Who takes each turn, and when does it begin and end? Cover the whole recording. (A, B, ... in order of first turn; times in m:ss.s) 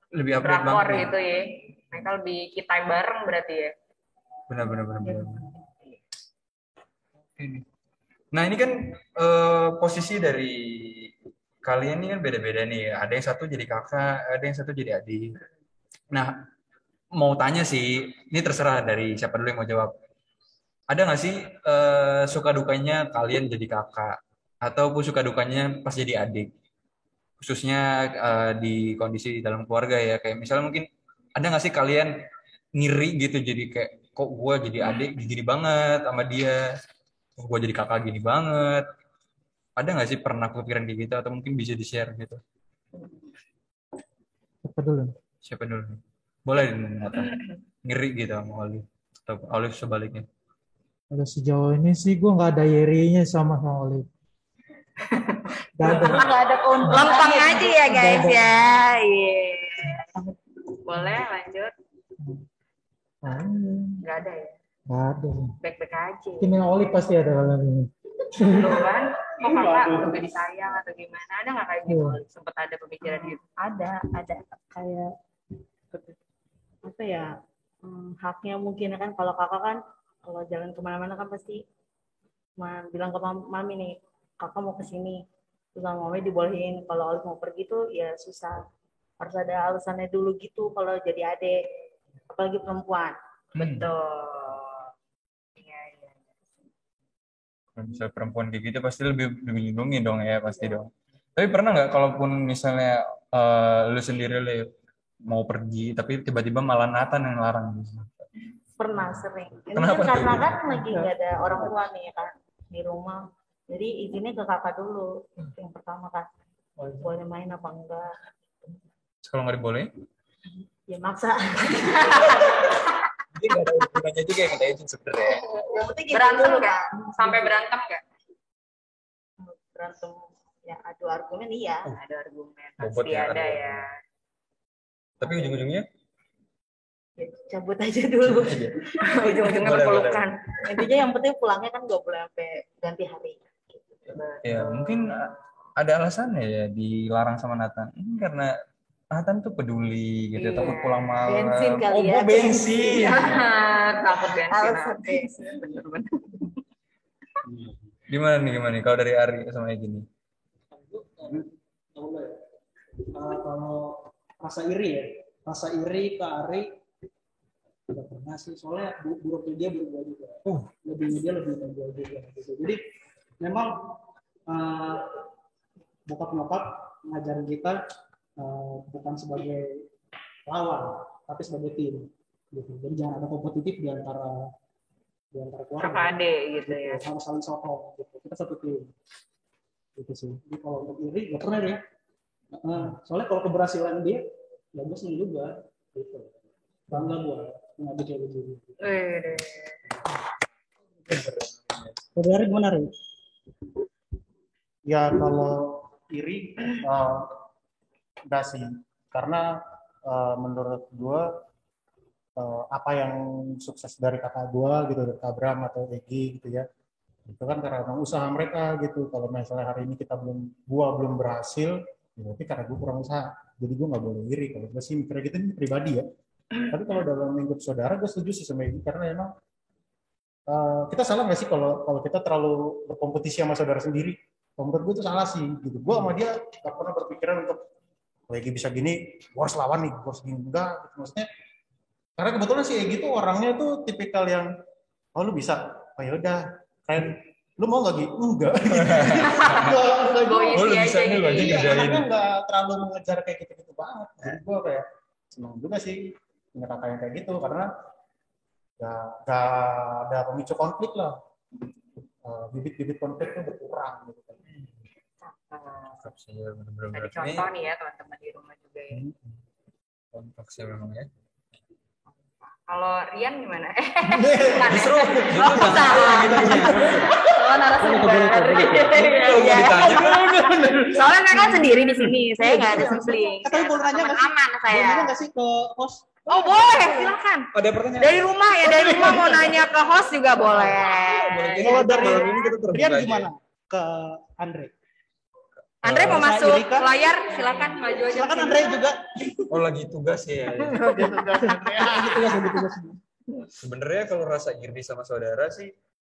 0:00.1-0:01.1 A
0:00.4-0:03.7 B
0:04.5-0:05.5 A
0:07.4-0:07.6 A
0:08.3-0:11.1 A
0:11.6-0:15.3 A
0:17.2-0:19.9 A
0:20.9-0:26.5 A
0:27.4-0:32.1 A
0:32.8-0:36.6 A
0:37.4-0:38.8 A
0:39.8-0:42.4 A
0:44.6-0:45.1 C
0:45.4-0:47.3 A
0:47.1-0:47.5 B
0:47.8-0:50.2 A
0:51.1-0:54.1 C
0:55.0-0:56.3 B
0:55.8-0:56.3 C
0:55.8-0:57.9 D
0:56.8-1:00.0 B
0:57.8-0:58.5 C
1:00.8-1:01.7 B
1:03.2-1:04.0 C
1:04.0-1:04.5 B
1:04.9-1:05.5 C
1:05.6-1:06.5 B
1:06.4-1:07.9 C
1:08.4-1:13.4 B
1:09.4-1:10.1 E
1:11.9-1:12.2 C
1:13.0-1:15.1 D
1:16.8-1:17.3 D
1:17.8-1:21.6 D
1:22.6-1:25.2 D
1:25.7-1:28.6 D
1:29.2-1:31.6 D
1:32.3-1:33.9 D
1:33.6-1:34.9 B
1:33.6-1:33.8 A
1:35.6-1:36.2 B
1:37.8-1:44.6 A
1:45.3-1:48.2 A
1:48.8-1:56.3 D
1:49.7-1:51.0 A
1:56.8-1:57.1 C
1:57.0-1:58.0 D
1:59.2-1:59.9 A
2:00.9-2:02.6 D
2:02.0-2:02.9 B
2:03.3-2:05.4 A
2:05.4-2:08.0 B
2:05.7-2:07.6 D
2:09.4-2:11.9 D
2:11.9-2:13.9 B
2:12.8-2:13.9 A
2:15.2-2:15.8 A
2:17.2-2:18.8 D
2:18.2-2:20.3 A
2:19.0-2:20.4 B
2:20.6-2:23.8 D
2:24.1-2:25.3 B
2:24.4-2:28.5 A
2:29.1-2:33.3 A
2:30.4-2:31.2 B
2:31.2-2:33.4 D
2:33.0-2:36.6 B
2:34.1-2:35.8 D
2:38.1-2:40.0 A
2:40.7-2:42.3 F
2:43.1-2:46.7 F
2:47.9-2:52.8 F
2:50.4-2:50.7 A
2:53.4-2:54.0 F
2:54.5-2:55.2 F
2:56.1-2:57.8 F
2:58.4-2:59.6 F
3:00.4-3:04.4 F
3:05.3-3:08.9 F
3:05.8-3:07.0 B
3:10.0-3:11.8 F
3:12.5-3:14.2 F
3:14.7-3:16.4 F
3:16.9-3:18.9 F
3:18.8-3:19.8 B
3:22.1-3:22.9 F
3:24.9-3:27.3 E
3:28.3-3:31.3 E
3:32.4-3:36.6 E
3:37.3-3:46.0 E
3:46.7-3:49.3 E
3:50.5-3:57.6 E
3:58.3-4:01.2 E
4:02.2-4:04.5 E
4:05.1-4:16.0 E
4:08.7-4:09.7 A
4:09.2-4:11.8 B
4:10.5-4:12.1 A
4:16.5-4:17.7 E
4:18.8-4:21.1 E
4:22.2-4:24.4 E
4:25.2-4:26.0 B
4:26.0-4:27.5 A
4:26.9-4:29.0 B
4:30.1-4:31.1 A
4:32.4-4:45.1 B
4:34.1-4:37.2 E
4:34.6-4:37.1 A
4:37.8-4:39.2 F
4:39.1-4:40.3 A
4:39.6-4:42.0 E
4:42.4-4:46.2 F
4:46.3-4:52.5 B
4:47.5-4:48.3 A
4:50.8-4:53.3 A
4:51.6-4:54.7 F
4:55.8-4:58.8 B
4:55.9-4:56.3 A
4:55.9-4:57.0 F
4:57.6-4:59.4 F
4:59.5-5:00.8 A
5:00.5-5:02.4 E
5:01.7-5:03.0 F
5:03.6-5:05.7 A